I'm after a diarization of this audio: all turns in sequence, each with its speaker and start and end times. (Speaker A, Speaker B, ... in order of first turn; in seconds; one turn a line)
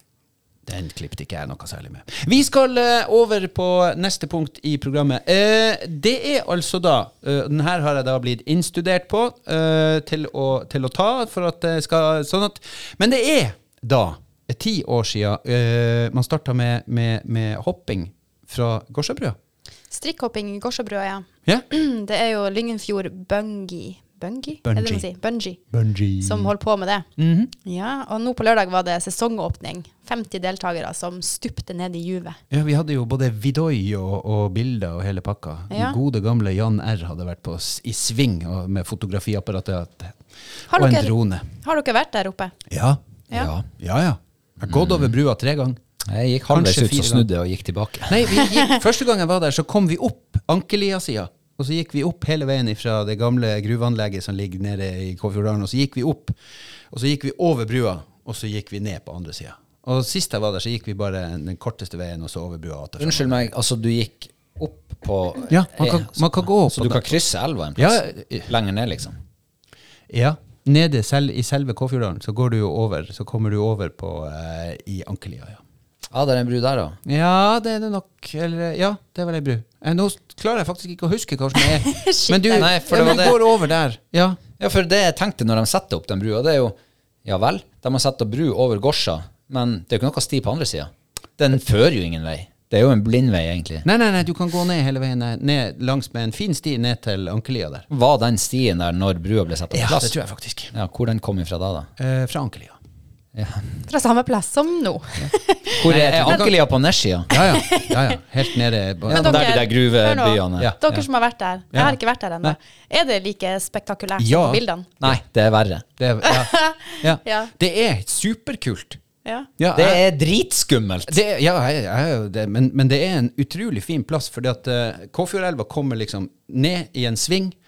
Speaker A: 0.7-19.4
Speaker B: 19.9-25.6
Speaker A: 24.6-25.1
Speaker A: 25.7-26.5
Speaker B: 26.2-27.1
Speaker A: 27.2-27.5
Speaker B: 27.6-32.4
Speaker A: 32.5-40.2
Speaker B: 35.7-36.0
Speaker A: 40.7-41.5
Speaker B: 40.7-42.5
Speaker A: 42.7-43.0
Speaker C: 43.3-43.7
Speaker A: 43.7-45.8
Speaker C: 44.7-45.1
Speaker C: 46.1-48.3
Speaker A: 46.5-47.3
Speaker A: 48.1-56.4
Speaker A: 56.9-63.5
Speaker C: 63.0-69.2
Speaker A: 65.5-67.2
Speaker A: 67.8-68.5
Speaker A: 70.1-75.6
Speaker C: 76.1-77.0
Speaker A: 77.1-84.4
Speaker B: 81.6-83.3
Speaker C: 82.5-83.4
Speaker C: 84.6-93.8
Speaker A: 93.8-97.9
Speaker C: 97.9-100.1
Speaker A: 99.7-100.7
Speaker C: 100.7-101.9
Speaker A: 102.0-102.8
Speaker C: 103.3-103.8
Speaker B: 103.9-105.8
Speaker A: 105.2-106.6
Speaker C: 105.8-107.3
Speaker A: 107.3-109.6
Speaker B: 107.3-108.2
Speaker C: 109.1-111.0
Speaker B: 109.1-114.9
Speaker A: 111.7-112.6
Speaker A: 114.2-115.2
Speaker C: 115.0-115.8
Speaker A: 116.0-119.0
Speaker B: 116.2-117.5
Speaker A: 119.6-120.0
Speaker C: 119.7-121.2
Speaker A: 121.1-127.6